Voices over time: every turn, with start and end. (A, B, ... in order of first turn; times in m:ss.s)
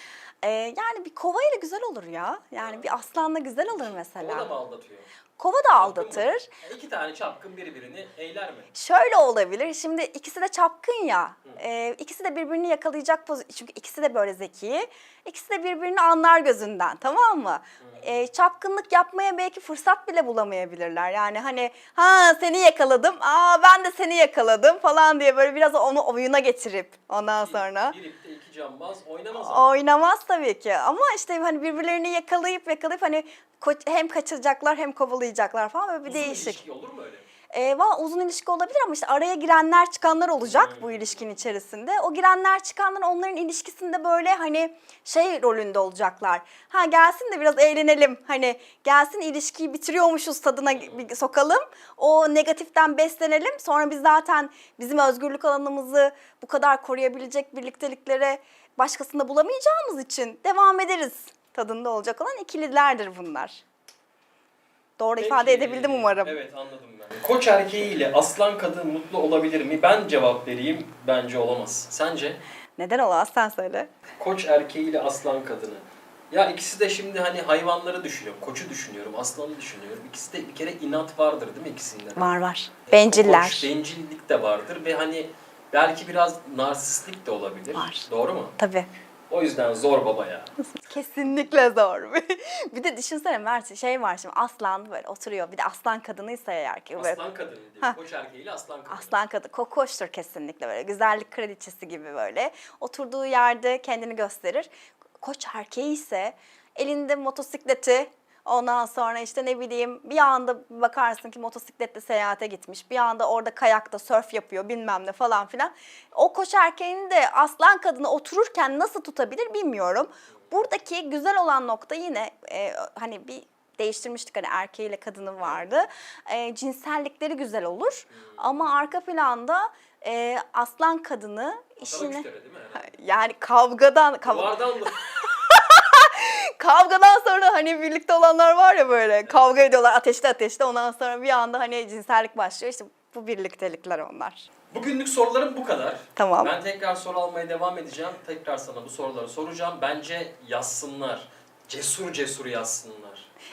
0:00.4-0:04.5 A
0:02.6-0:03.0 B
0:03.7-0:05.1 B
0:05.4-0:06.5 A
0:05.8-0:08.7 B
0:08.7-0:28.0 A
0:17.8-0:18.1 B
0:27.2-0:29.8 B
0:29.4-0:36.6 A
0:36.0-0:37.3 B
0:37.5-1:03.6 A
0:40.4-0:41.3 B
0:50.6-0:51.1 B
1:05.0-1:06.4 A
1:05.2-1:12.4 B
1:12.8-1:13.9 A
1:14.2-1:28.5 B
1:22.2-1:23.7 A
1:27.7-1:28.9 A
1:29.3-1:30.5 B
1:30.6-1:37.2 A
1:36.9-1:39.2 B
1:38.9-2:12.2 A
2:05.4-2:05.7 B
2:08.1-2:08.8 B
2:11.8-2:13.0 B
2:12.8-2:24.5 A
2:14.2-2:15.0 B
2:19.2-2:19.5 B
2:24.7-2:33.3 B
2:26.2-2:26.5 A